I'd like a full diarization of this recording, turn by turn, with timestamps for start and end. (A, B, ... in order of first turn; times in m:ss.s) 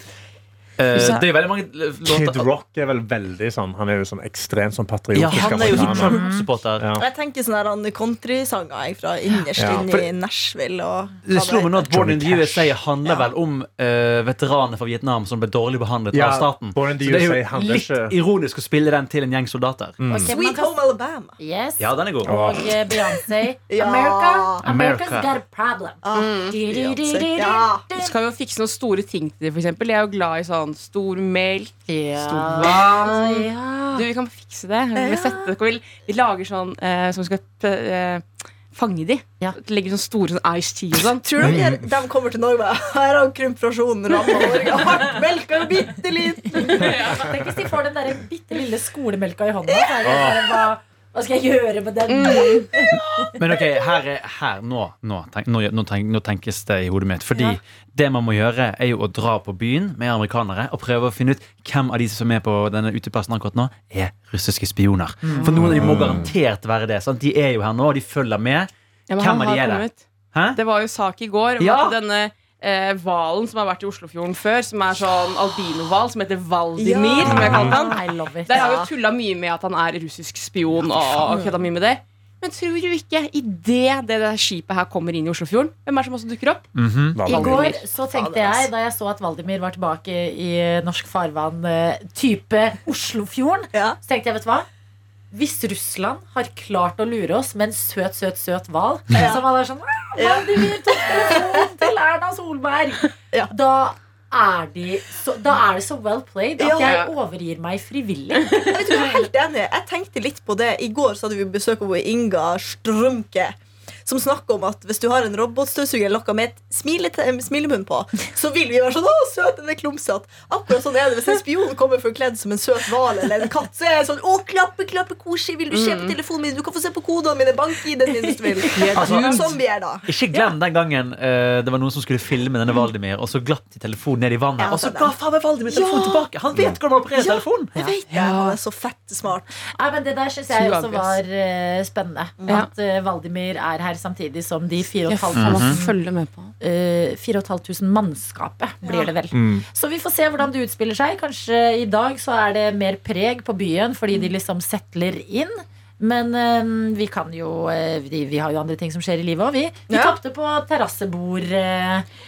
0:00.8-0:02.4 A
0:01.0-0:01.2 B
0:02.0-0:06.2 C
0:05.1-0:06.9 A
0:05.4-0:06.2 D
0:06.1-0:06.5 E
0:06.8-0:07.0 C
0:07.0-0:12.0 D
0:09.6-0:10.1 C
0:11.2-0:20.0 A
0:11.9-0:12.7 C
0:16.1-0:18.2 C
0:20.0-0:20.3 C
0:20.1-0:20.8 E
0:20.3-0:21.4 D
0:21.4-0:28.2 E
0:21.8-0:22.4 A
0:22.2-0:22.6 C
0:23.7-0:24.6 D
0:24.6-0:25.3 A
0:26.0-0:27.8 D
0:26.1-0:26.6 B
0:28.0-0:41.5 B
0:31.9-0:34.0 E
0:35.0-0:35.4 D
0:41.2-0:47.0 D
0:41.4-0:41.9 C
0:46.6-0:47.3 B
0:46.6-0:53.2 E
0:47.2-0:47.5 C
0:49.7-0:50.4 D
0:50.0-0:50.4 C
0:52.1-0:52.7 B
0:52.9-0:54.0 D
0:53.4-1:10.6 A
0:57.3-0:57.6 E
1:05.2-1:05.5 E
1:05.4-1:05.8 B
1:05.6-1:06.4 C
1:09.1-1:26.7 B
1:11.6-1:12.0 A
1:16.8-1:18.9 D
1:17.3-1:17.8 C
1:17.4-1:18.8 E
1:20.9-1:21.3 E
1:21.2-1:21.6 D
1:26.8-1:27.2 A
1:27.1-1:27.7 C
1:27.2-1:27.8 B
1:27.2-1:34.7 E
1:27.4-1:28.7 D
1:35.3-1:49.0 E
1:39.1-1:39.4 D
1:40.2-1:41.7 D
1:46.6-1:47.0 D
1:46.8-1:47.1 B
1:48.6-2:10.1 D
2:05.7-2:06.2 B
2:08.3-2:09.0 E
2:08.7-2:09.5 B
2:08.8-2:17.7 A
2:14.6-2:16.3 D
2:16.5-2:16.8 C
2:17.2-2:19.5 D
2:17.8-2:18.0 E
2:17.8-2:18.6 B
2:19.8-2:26.0 E
2:20.5-2:21.2 B
2:25.1-2:26.5 B
2:25.3-2:25.8 A
2:26.6-2:42.1 E
2:28.8-2:29.1 D
2:29.3-2:29.6 C
2:39.9-2:40.2 D